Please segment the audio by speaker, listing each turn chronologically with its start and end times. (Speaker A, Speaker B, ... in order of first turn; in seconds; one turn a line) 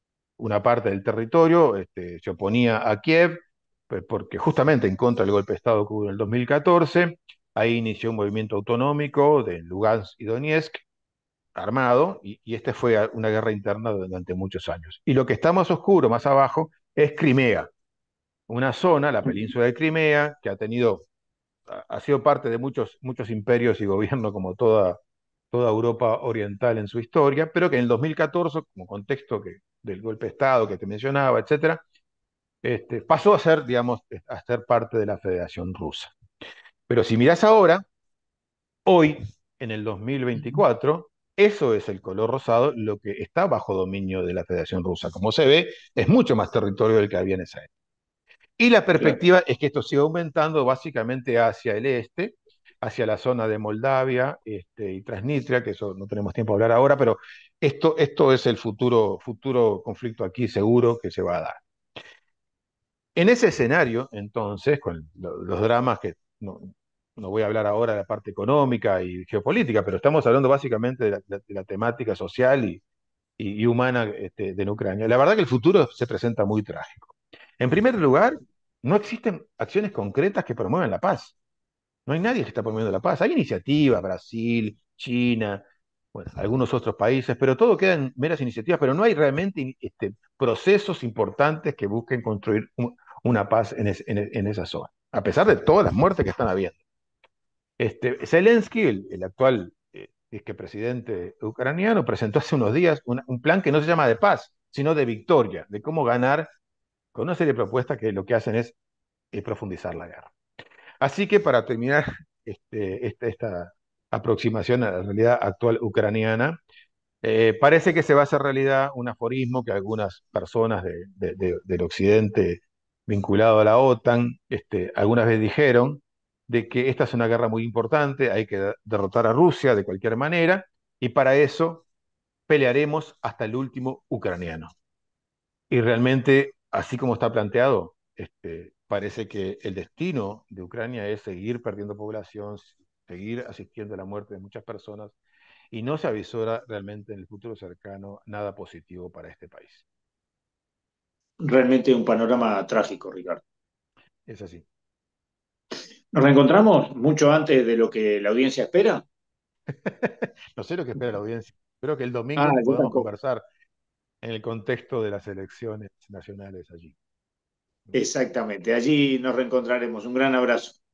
Speaker A: 0.4-10.8
Speaker A: 11.5-17.7
Speaker A: 18.5-21.1
Speaker A: 21.7-25.0
Speaker A: 25.5-31.8
Speaker A: 32.6-36.1
Speaker A: 36.9-37.8
Speaker A: 38.9-47.7
Speaker A: 48.6-61.6
Speaker A: 63.1-72.8
Speaker A: 73.4-81.3
Speaker A: 82.0-96.8
Speaker A: 97.8-106.5
Speaker A: 107.1-108.8
Speaker A: 109.3-110.3
Speaker A: 111.0-116.6
Speaker A: 117.2-131.8
Speaker A: 132.5-134.7
Speaker A: 135.7-145.2
Speaker A: 145.7-149.8
Speaker B: 151.4-153.4
Speaker A: 154.3-154.6
Speaker B: 156.1-159.0
Speaker A: 159.7-163.4
Speaker B: 162.3-163.1
Speaker A: 164.2-166.9
Speaker B: 167.9-170.8